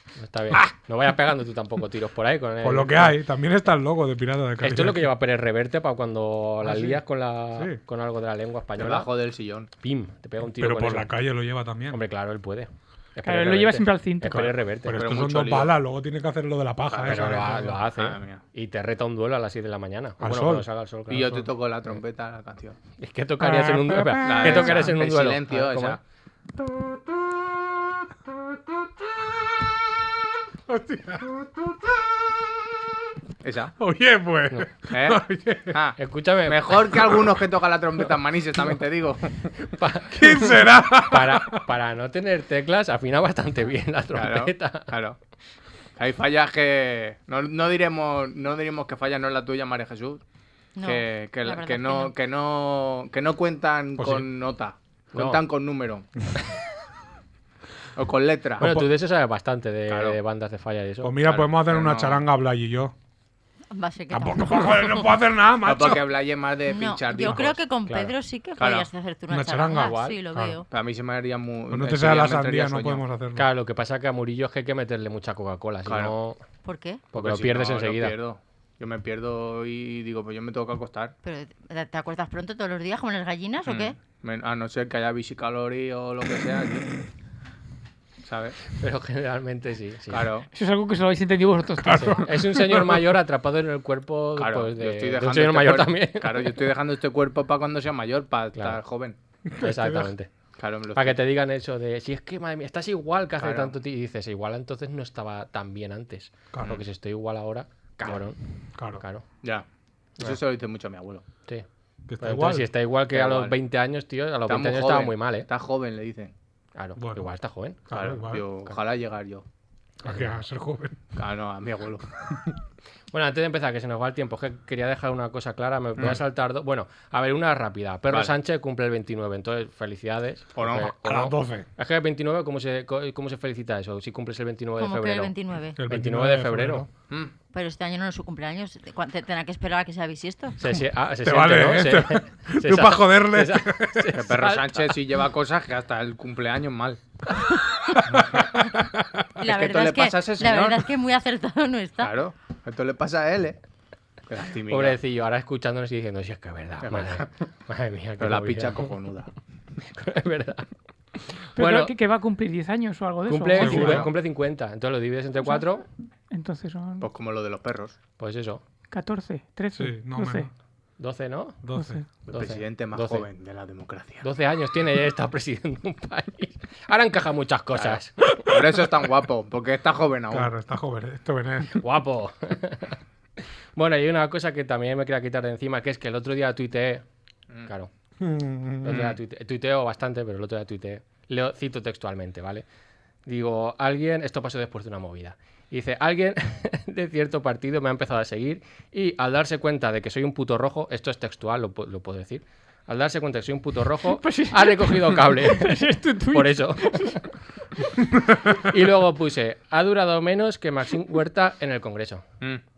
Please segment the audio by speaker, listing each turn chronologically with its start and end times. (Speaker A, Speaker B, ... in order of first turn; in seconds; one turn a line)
Speaker A: 0.2-3.2
Speaker B: 2.6-5.1
Speaker A: 4.6-9.1
Speaker B: 6.6-7.0
Speaker B: 7.5-7.8
Speaker C: 8.8-9.7
Speaker A: 9.8-11.1
Speaker B: 10.4-12.0
Speaker A: 11.9-15.0
Speaker D: 13.2-14.5
Speaker B: 14.3-17.8
Speaker C: 14.9-15.8
Speaker C: 16.9-18.4
Speaker A: 17.0-21.5
Speaker B: 20.2-20.7
Speaker C: 21.1-22.8
Speaker A: 23.0-26.0
Speaker B: 23.4-24.9
Speaker C: 24.2-26.0
Speaker B: 30.7-31.5
Speaker C: 33.4-33.7
Speaker B: 33.8-35.8
Speaker C: 34.9-39.4
Speaker A: 36.0-36.9
Speaker B: 37.0-37.3
Speaker A: 39.6-40.5
Speaker B: 40.1-41.6
Speaker A: 41.1-44.9
Speaker C: 44.1-45.2
Speaker C: 46.0-50.2
Speaker E: 50.8-52.1
Speaker C: 50.8-56.1
Speaker B: 54.0-54.3
Speaker A: 55.1-55.4
Speaker C: 58.0-58.8
Speaker A: 58.6-61.1
Speaker B: 58.6-58.9
Speaker C: 59.9-60.2
Speaker B: 61.0-63.0
Speaker C: 61.2-62.2
Speaker E: 63.7-65.1
Speaker B: 64.1-66.1
Speaker C: 65.6-67.6
Speaker E: 66.7-70.7
Speaker C: 68.6-68.9
Speaker B: 69.3-70.6
Speaker A: 69.7-70.2
Speaker C: 70.7-73.0
Speaker B: 71.7-73.5
Speaker A: 73.4-76.4
Speaker C: 75.9-76.1
Speaker E: 76.6-77.0
Speaker A: 77.1-78.2
Speaker C: 77.1-81.1
Speaker E: 81.2-84.0
Speaker C: 83.7-87.0
Speaker C: 88.2-88.6
Speaker A: 88.7-90.3
Speaker C: 90.1-90.5
Speaker D: 90.5-92.2
Speaker B: 91.8-93.1
Speaker A: 91.9-96.6
Speaker C: 94.4-99.2
Speaker A: 98.5-98.8
Speaker B: 99.5-100.1
Speaker A: 99.6-100.3
Speaker C: 100.6-101.2
Speaker A: 100.9-108.4
Speaker C: 103.4-103.8
Speaker B: 108.8-109.0
Speaker A: 109.0-109.2
Speaker C: 110.2-111.2
Speaker B: 112.1-112.7
Speaker A: 112.2-115.5
Speaker C: 113.1-113.6
Speaker C: 114.5-116.3
Speaker A: 116.8-117.8
Speaker B: 117.0-117.3
Speaker B: 117.9-118.5
Speaker C: 117.9-119.4
Speaker A: 120.0-120.4
Speaker B: 120.0-121.0
Speaker C: 121.2-122.1
Speaker A: 123.1-135.3
Speaker C: 130.6-130.9
Speaker B: 131.0-131.7
Speaker E: 134.8-135.8
Speaker B: 135.8-136.9
Speaker A: 135.9-136.9
Speaker E: 137.5-140.6
Speaker A: 140.6-145.0
Speaker B: 140.6-144.2
Speaker C: 144.1-147.0
Speaker C: 148.1-148.5
Speaker B: 148.1-149.2
Speaker C: 149.4-150.9
Speaker E: 149.4-152.1
Speaker C: 152.0-153.6
Speaker C: 154.3-155.0
Speaker A: 154.7-158.9
Speaker C: 156.8-157.3
Speaker C: 158.2-159.3
Speaker A: 159.8-160.7
Speaker A: 161.6-161.9
Speaker D: 161.6-164.0
Speaker A: 163.3-165.8
Speaker B: 163.6-164.1
Speaker C: 163.7-164.1
Speaker D: 166.3-167.1
Speaker C: 167.0-168.0
Speaker A: 168.2-168.6
Speaker D: 168.9-170.5
Speaker B: 169.8-170.5
Speaker A: 171.0-171.6
Speaker B: 171.6-172.0
Speaker D: 171.8-172.1
Speaker A: 172.3-173.2
Speaker C: 172.3-174.2
Speaker A: 174.2-178.2
Speaker C: 177.7-180.5
Speaker B: 180.3-181.9
Speaker A: 181.8-183.0
Speaker A: 183.8-187.0
Speaker B: 188.2-189.1
Speaker A: 188.8-192.6
Speaker A: 193.2-207.2
Speaker D: 204.1-207.3
Speaker A: 208.5-212.2